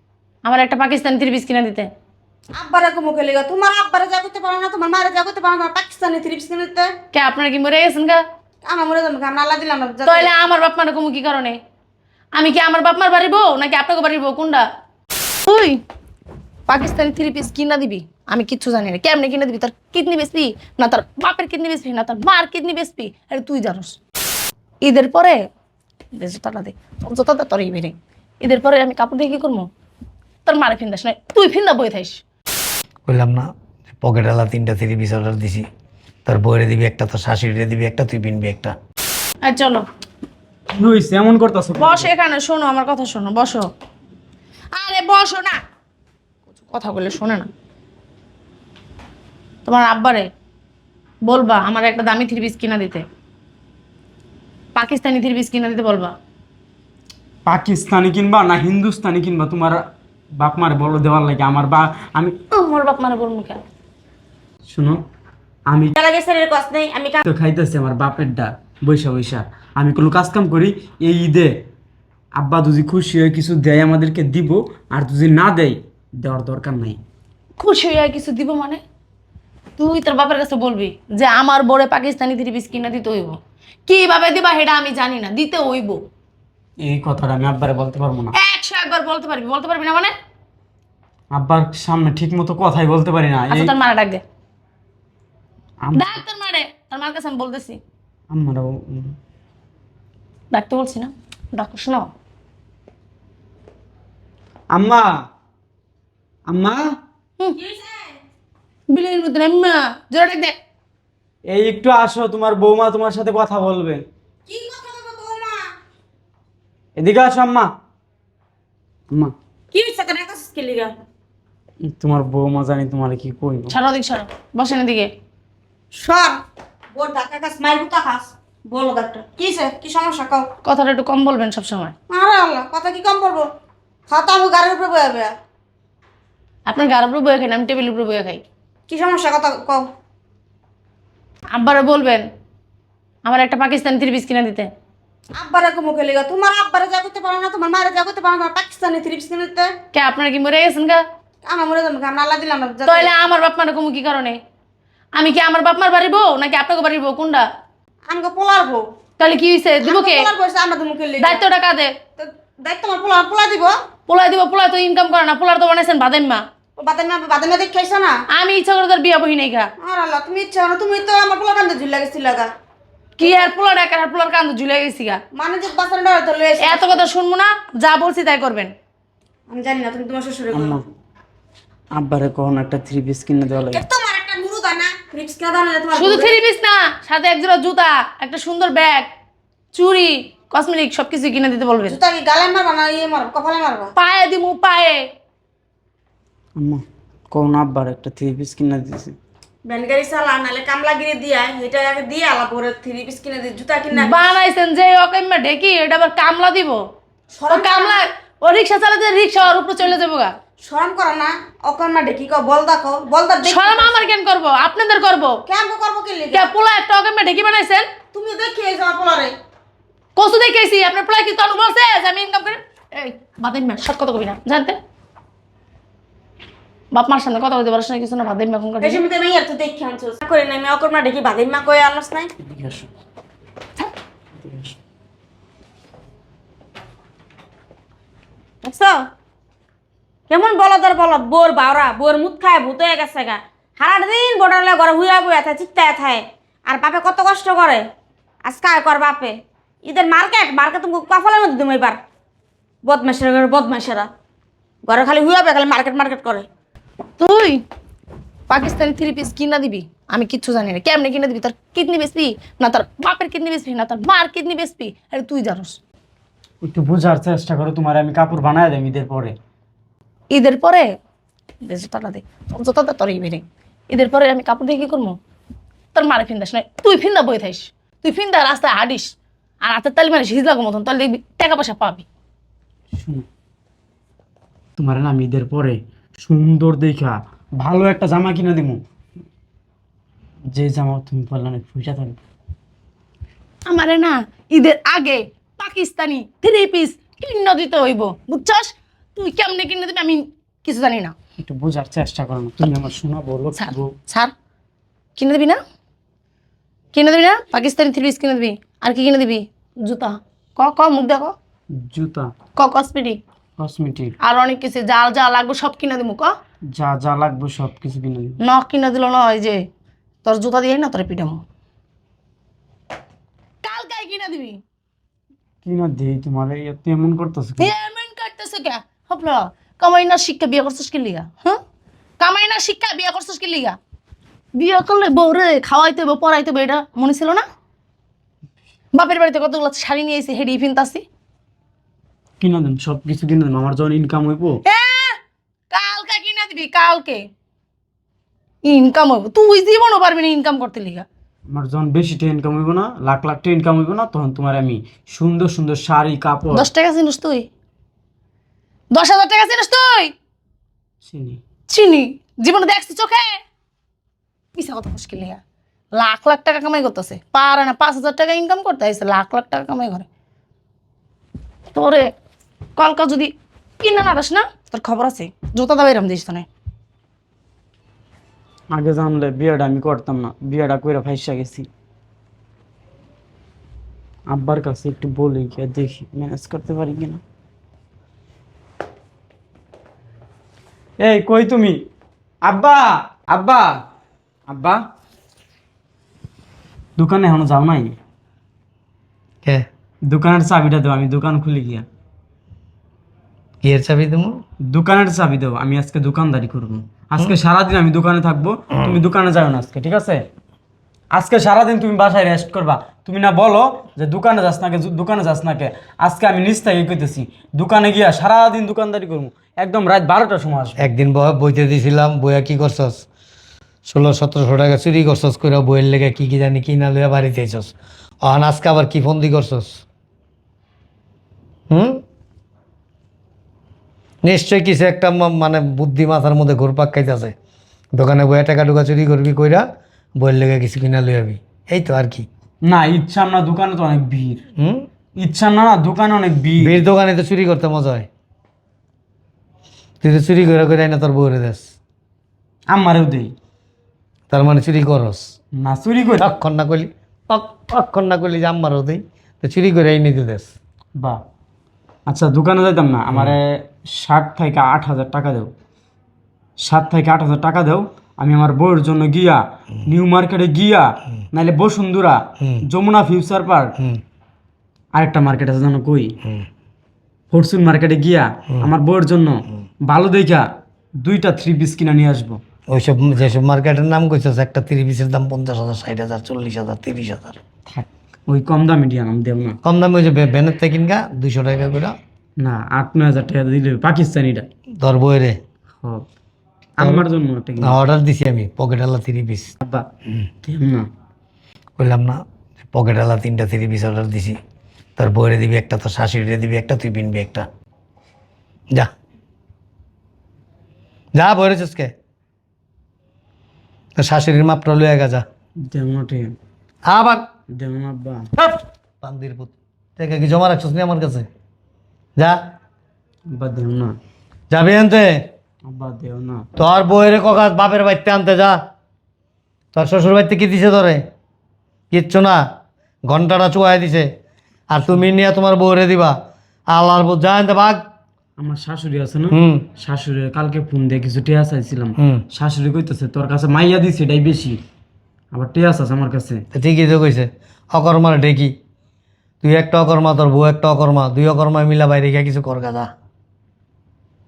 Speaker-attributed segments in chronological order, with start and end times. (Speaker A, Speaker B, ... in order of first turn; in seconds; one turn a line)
Speaker A: 0.4-1.9
Speaker B: 2.5-6.9
Speaker A: 7.1-8.2
Speaker B: 8.6-10.3
Speaker A: 10.0-11.6
Speaker A: 12.3-14.6
Speaker A: 15.4-15.8
Speaker A: 16.7-24.0
Speaker A: 24.8-25.4
Speaker A: 26.1-29.7
Speaker A: 30.4-32.2
Speaker C: 33.1-33.5
Speaker C: 34.0-35.6
Speaker C: 36.2-38.7
Speaker A: 39.4-39.8
Speaker D: 40.7-42.1
Speaker A: 41.8-43.7
Speaker A: 44.7-45.6
Speaker A: 46.5-47.5
Speaker A: 49.6-50.3
Speaker A: 51.3-53.0
Speaker A: 54.7-56.1
Speaker D: 57.5-59.8
Speaker D: 60.4-62.4
Speaker A: 62.5-63.6
Speaker D: 64.7-65.0
Speaker D: 65.7-66.0
Speaker B: 66.0-67.2
Speaker D: 67.2-71.6
Speaker D: 72.3-77.0
Speaker A: 77.6-78.8
Speaker A: 79.8-86.0
Speaker D: 86.8-88.3
Speaker A: 88.3-90.1
Speaker D: 91.3-93.7
Speaker A: 93.5-94.2
Speaker D: 95.8-96.2
Speaker A: 95.9-97.8
Speaker D: 98.3-99.2
Speaker A: 100.5-102.0
Speaker D: 104.7-105.1
Speaker D: 106.5-107.0
Speaker B: 107.5-108.2
Speaker A: 108.9-110.5
Speaker D: 111.5-114.0
Speaker B: 114.5-115.7
Speaker D: 117.0-117.7
Speaker B: 119.7-121.0
Speaker D: 121.9-123.7
Speaker A: 123.7-125.1
Speaker B: 126.0-126.4
Speaker B: 126.9-130.5
Speaker A: 130.6-131.9
Speaker B: 132.1-133.5
Speaker B: 134.1-135.3
Speaker A: 136.7-138.4
Speaker B: 138.9-139.9
Speaker A: 141.5-142.2
Speaker A: 143.2-144.7
Speaker B: 145.3-149.7
Speaker A: 149.9-151.0
Speaker B: 151.4-153.1
Speaker A: 152.8-154.4
Speaker A: 155.2-157.4
Speaker B: 158.1-158.8
Speaker A: 159.2-160.3
Speaker B: 159.8-161.4
Speaker A: 161.2-161.9
Speaker B: 162.2-163.7
Speaker A: 164.1-166.4
Speaker B: 166.8-168.2
Speaker A: 168.3-169.7
Speaker B: 169.8-172.5
Speaker A: 173.2-175.2
Speaker B: 173.2-173.5
Speaker B: 175.3-177.1
Speaker A: 176.6-178.7
Speaker B: 179.5-180.8
Speaker D: 180.5-180.8
Speaker D: 181.9-183.8
Speaker B: 183.7-186.3
Speaker A: 185.9-189.1
Speaker A: 189.7-192.0
Speaker B: 191.8-193.9
Speaker A: 193.9-195.0
Speaker D: 196.6-199.2
Speaker B: 199.7-204.3
Speaker A: 203.9-206.8
Speaker B: 207.3-208.0
Speaker A: 207.5-210.3
Speaker B: 210.6-214.1
Speaker A: 213.4-215.4
Speaker B: 215.5-216.5
Speaker A: 216.3-217.9
Speaker B: 218.1-219.3
Speaker A: 220.2-224.8
Speaker A: 226.9-229.0
Speaker B: 228.8-232.3
Speaker D: 232.4-232.9
Speaker D: 234.4-234.8
Speaker B: 238.6-239.0
Speaker B: 240.3-247.8
Speaker B: 248.4-252.0
Speaker B: 252.8-254.1
Speaker B: 254.8-256.5
Speaker A: 257.2-257.6
Speaker A: 258.5-265.8
Speaker D: 266.6-269.4
Speaker A: 270.3-270.9
Speaker A: 271.6-275.2
Speaker A: 275.9-282.1
Speaker D: 282.9-283.2
Speaker D: 284.8-288.8
Speaker D: 290.5-292.2
Speaker A: 293.7-301.1
Speaker D: 301.4-303.9
Speaker A: 303.6-304.3
Speaker A: 305.1-305.6
Speaker A: 306.9-311.3
Speaker D: 311.8-312.3
Speaker A: 312.6-313.2
Speaker D: 313.6-314.1
Speaker A: 314.2-316.3
Speaker D: 316.7-318.4
Speaker A: 318.4-319.6
Speaker A: 320.2-321.4
Speaker A: 323.6-324.6
Speaker D: 325.6-327.7
Speaker A: 327.6-331.6
Speaker A: 332.2-333.8
Speaker A: 334.6-337.4
Speaker A: 338.9-341.0
Speaker D: 342.4-344.6
Speaker A: 344.6-345.2
Speaker A: 345.7-347.2
Speaker A: 348.6-351.0
Speaker D: 351.5-356.7
Speaker A: 356.5-357.5
Speaker A: 358.9-360.1
Speaker D: 361.0-361.4
Speaker A: 361.7-363.4
Speaker A: 364.5-365.4
Speaker A: 365.9-370.1
Speaker A: 371.7-372.1
Speaker A: 372.8-376.5
Speaker D: 378.7-381.7
Speaker D: 384.3-387.2
Speaker D: 391.0-391.8
Speaker D: 392.4-393.8
Speaker D: 394.5-394.8
Speaker D: 397.0-398.0
Speaker D: 400.1-401.9
Speaker C: 403.6-404.4
Speaker D: 404.6-410.2
Speaker D: 411.1-420.8
Speaker C: 420.8-423.0
Speaker C: 423.8-427.7
Speaker C: 428.2-429.8
Speaker C: 431.7-432.0
Speaker C: 434.2-437.3
Speaker C: 437.9-439.6
Speaker C: 440.2-442.2
Speaker D: 442.6-444.4
Speaker C: 444.6-444.9
Speaker D: 445.2-446.8
Speaker C: 446.6-448.1
Speaker C: 450.0-451.7
Speaker D: 452.7-453.3
Speaker C: 454.3-455.3
Speaker D: 455.6-456.3
Speaker C: 456.2-460.5
Speaker D: 462.1-465.5
Speaker D: 466.6-473.7
Speaker D: 474.9-476.1
Speaker D: 477.3-480.4
Speaker D: 481.0-482.4
Speaker C: 482.7-487.4
Speaker D: 487.7-489.6
Speaker C: 489.6-491.9
Speaker D: 492.4-494.5
Speaker C: 494.8-495.4
Speaker D: 496.8-497.8
Speaker C: 496.8-497.0
Speaker C: 497.6-499.5
Speaker D: 499.6-499.9
Speaker D: 500.4-500.9
Speaker C: 501.8-504.4
Speaker C: 505.0-507.4
Speaker C: 511.1-511.9
Speaker C: 514.0-515.2
Speaker D: 515.6-516.4
Speaker C: 516.9-517.3
Speaker D: 517.5-518.3
Speaker C: 518.4-521.3
Speaker D: 523.3-523.9
Speaker C: 524.5-525.2
Speaker D: 525.6-526.5
Speaker C: 526.6-528.6
Speaker C: 529.7-531.0
Speaker C: 531.9-532.4
Speaker C: 533.1-534.1
Speaker C: 534.7-536.1
Speaker C: 536.7-537.8
Speaker D: 538.4-544.6
Speaker C: 539.3-539.7
Speaker C: 542.0-542.2
Speaker D: 545.3-546.4
Speaker C: 546.5-548.5
Speaker C: 549.4-552.9